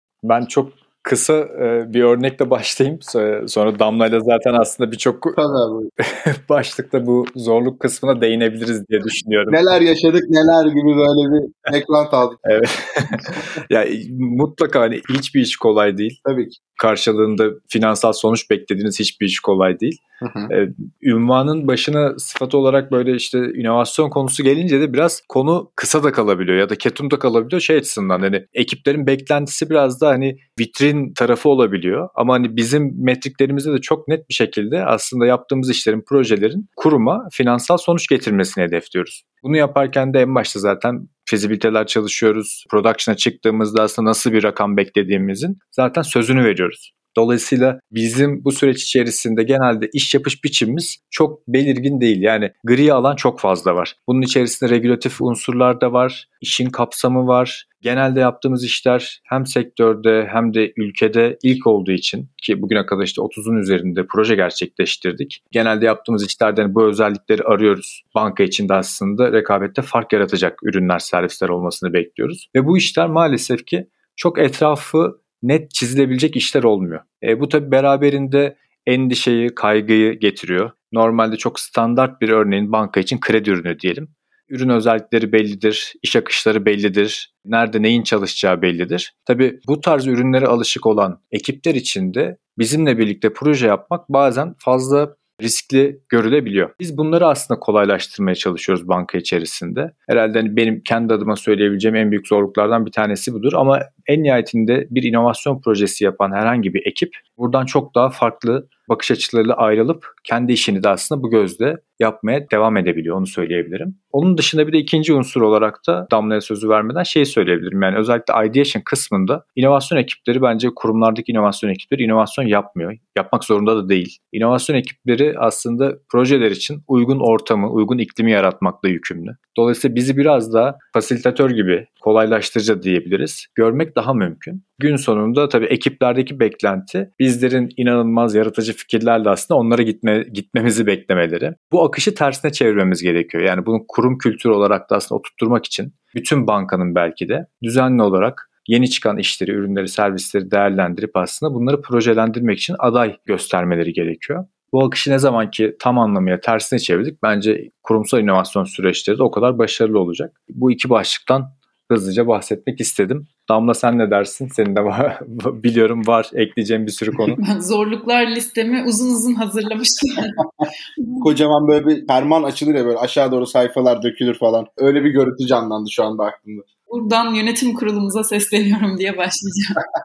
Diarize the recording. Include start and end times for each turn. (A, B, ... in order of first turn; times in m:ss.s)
0:00.2-0:05.4 A
0:05.4-0:05.9 B
0:06.0-0:09.6 A
0:09.5-0:12.4 B
0:12.5-0:16.2 A
0:16.2-0:16.6 B
0:16.8-2:47.4 A
0:20.2-0:20.5 B
2:47.4-2:50.4 C
2:51.0-2:51.3 C
2:51.2-2:56.6 B
2:56.9-2:59.8 C